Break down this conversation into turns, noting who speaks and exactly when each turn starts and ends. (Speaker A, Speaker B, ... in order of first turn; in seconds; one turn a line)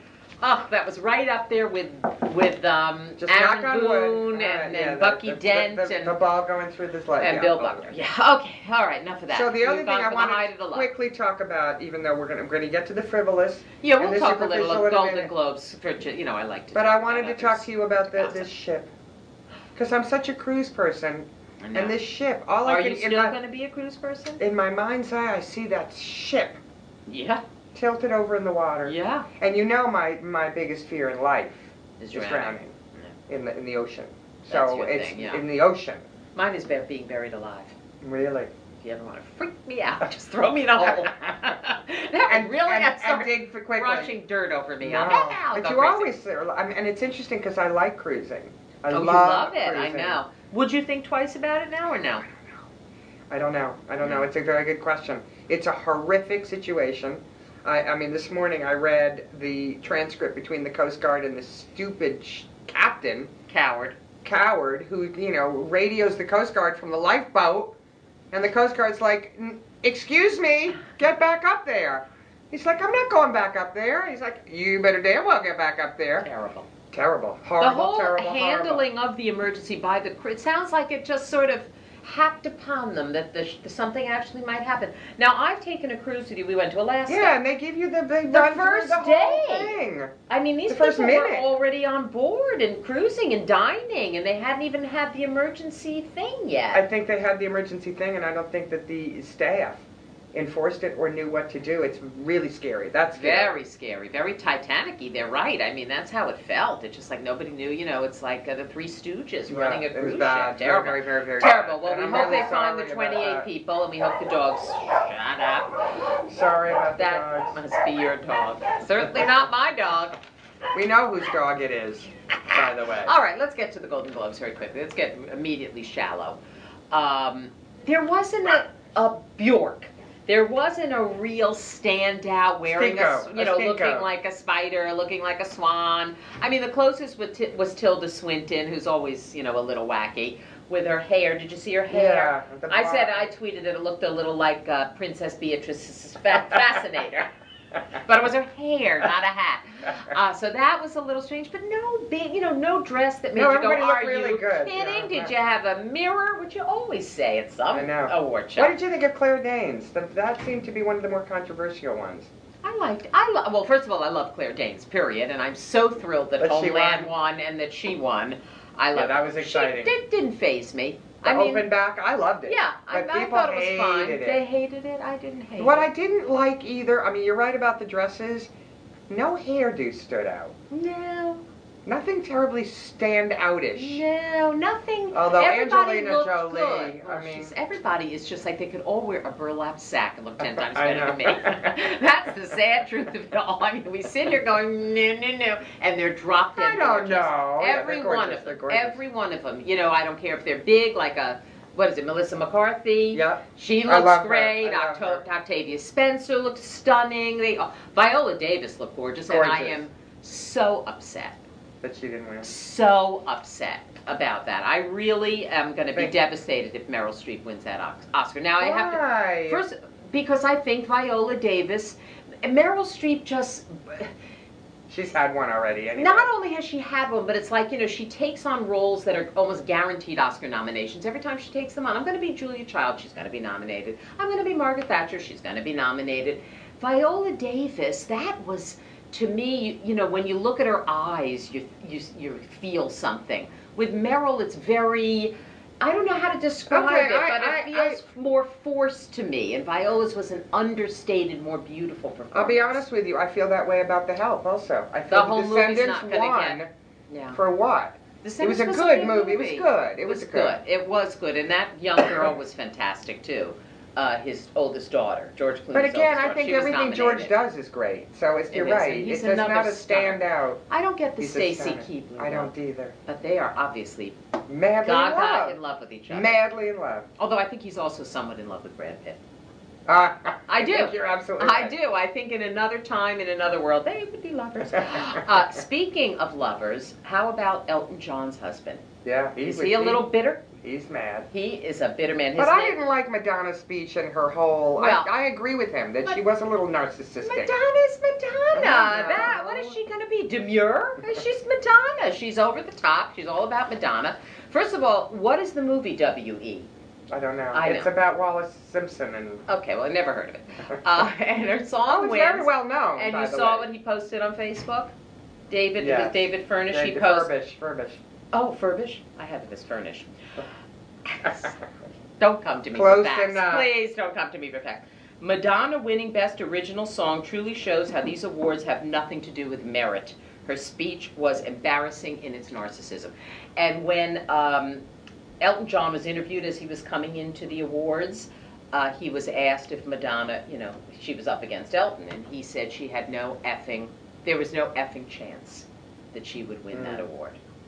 Speaker A: 0.4-6.2
Speaker B: 3.2-7.9
Speaker A: 7.2-10.9
Speaker B: 9.3-15.3
Speaker A: 13.8-18.5
Speaker B: 16.7-18.9
Speaker B: 19.8-23.4
Speaker A: 21.6-22.0
Speaker A: 22.6-24.4
Speaker B: 24.4-26.6
Speaker A: 27.1-27.4
Speaker B: 27.7-32.7
Speaker A: 28.8-29.3
Speaker A: 32.0-33.1
Speaker B: 33.3-36.0
Speaker A: 34.5-35.4
Speaker A: 36.3-37.7
Speaker B: 38.0-38.5
Speaker A: 38.8-46.1
Speaker B: 42.3-44.1
Speaker B: 44.8-50.2
Speaker A: 48.9-52.2
Speaker B: 53.3-63.3
Speaker A: 54.0-54.3
Speaker A: 63.5-64.0
Speaker B: 64.2-67.7
Speaker B: 68.3-76.3
Speaker A: 76.2-76.7
Speaker B: 76.9-78.8
Speaker A: 77.6-87.4
Speaker B: 87.1-90.1
Speaker A: 88.2-96.8
Speaker B: 90.7-91.5
Speaker B: 96.7-103.5
Speaker A: 103.1-115.9
Speaker B: 109.5-113.5
Speaker B: 116.2-117.6
Speaker A: 117.0-120.2
Speaker B: 120.7-123.1
Speaker A: 122.5-126.4
Speaker A: 126.9-147.3
Speaker B: 132.7-134.1
Speaker B: 141.9-143.3
Speaker A: 148.0-158.7
Speaker B: 153.3-155.3
Speaker B: 157.7-162.3
Speaker A: 162.6-171.7
Speaker B: 166.4-167.1
Speaker B: 168.9-169.9
Speaker B: 171.2-174.4
Speaker A: 172.4-175.9
Speaker B: 175.6-178.5
Speaker B: 179.1-180.5
Speaker A: 180.7-181.4
Speaker B: 181.8-184.0
Speaker A: 183.8-211.4
Speaker B: 185.1-187.5
Speaker B: 190.5-191.8
Speaker B: 196.5-199.0
Speaker B: 203.1-205.2
Speaker B: 209.3-209.8
Speaker B: 211.8-212.5
Speaker A: 212.4-224.1
Speaker B: 218.6-219.6
Speaker B: 224.9-226.3
Speaker A: 225.9-252.8
Speaker B: 246.7-248.0
Speaker B: 252.3-256.7
Speaker A: 255.1-257.4
Speaker B: 257.3-260.6
Speaker A: 258.2-267.4
Speaker B: 265.7-270.6
Speaker A: 268.5-272.5
Speaker B: 271.2-272.9
Speaker A: 273.1-274.1
Speaker B: 274.5-275.6
Speaker A: 274.8-276.4
Speaker B: 276.1-277.1
Speaker A: 277.2-279.2
Speaker B: 279.9-281.7
Speaker A: 280.5-288.8
Speaker B: 289.0-291.3
Speaker A: 289.4-290.4
Speaker A: 291.3-292.8
Speaker B: 292.4-297.6
Speaker A: 294.8-295.1
Speaker A: 297.2-306.7
Speaker B: 298.5-299.8
Speaker B: 307.1-309.4
Speaker A: 307.5-307.9
Speaker A: 309.5-314.9
Speaker B: 311.9-313.6
Speaker A: 315.5-317.3
Speaker B: 315.8-318.0
Speaker A: 318.3-320.1
Speaker A: 321.1-321.6
Speaker A: 322.2-334.8
Speaker B: 322.7-323.7
Speaker A: 335.4-347.4
Speaker B: 346.7-347.1